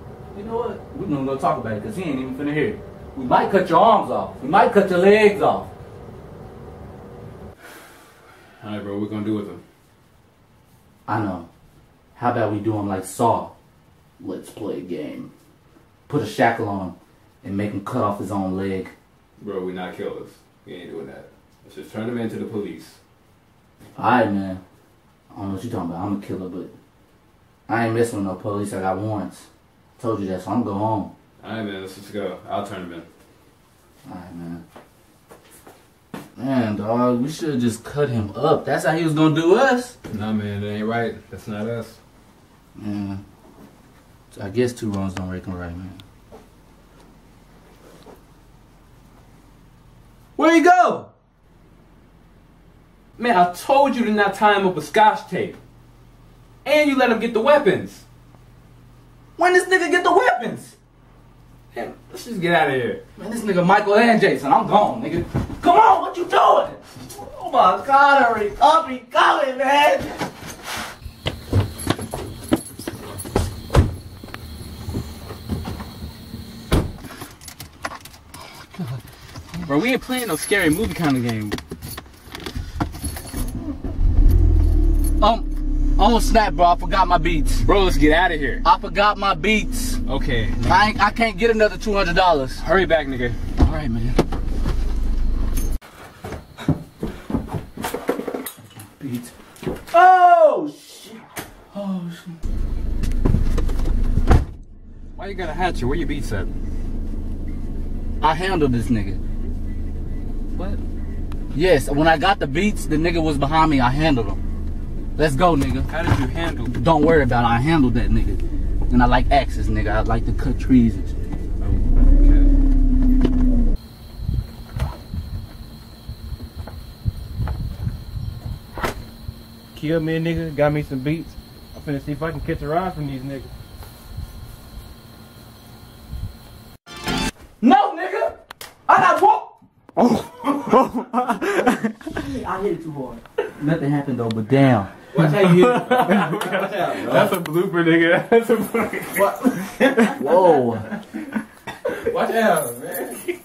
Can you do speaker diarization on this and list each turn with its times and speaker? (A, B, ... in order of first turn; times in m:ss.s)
0:00.3-0:05.7 A
0:08.6-0:09.6 B
0:11.1-0:11.5 A
0:12.1-0:13.5 A
0:14.2-0:15.3 A
0:16.1-0:18.9 A
0:19.4-0:23.0 B
0:24.0-0:24.6 A
0:25.3-0:26.7 A
0:27.7-0:29.5 A
0:30.0-0:31.1 A
0:31.4-0:33.0 B
0:34.0-0:34.6 A
0:36.4-0:40.0 A
0:40.1-0:42.0 B
0:42.8-0:43.2 A
0:44.3-0:46.0 A
0:50.4-0:51.0 A
0:53.2-0:55.6 B
0:56.6-0:58.0 B
0:59.4-1:00.8 A
1:01.7-1:03.0 B
1:03.2-1:10.2 A
1:19.6-1:21.6 B
1:25.2-1:27.7 A
1:27.6-1:28.6 B
1:28.6-1:30.0 A
1:30.1-1:30.8 B
1:30.6-1:32.7 A
1:32.6-1:33.4 B
1:33.6-1:34.2 A
1:39.0-1:39.3 A
1:39.9-1:41.2 A
1:41.7-1:42.3 A
1:45.2-1:46.5 B
1:48.2-1:49.2 A
1:51.5-1:54.4 A
1:55.2-1:55.9 A
1:55.9-1:56.7 B
1:56.7-2:01.2 A
2:01.6-2:02.5 B
2:09.7-2:13.5 C
2:17.6-2:18.4 A
2:18.9-2:19.5 A
2:22.2-2:24.9 A
2:25.1-2:27.3 C
2:25.4-2:29.3 B
2:29.2-2:29.9 C
2:30.1-2:30.9 A
2:32.3-2:33.0 C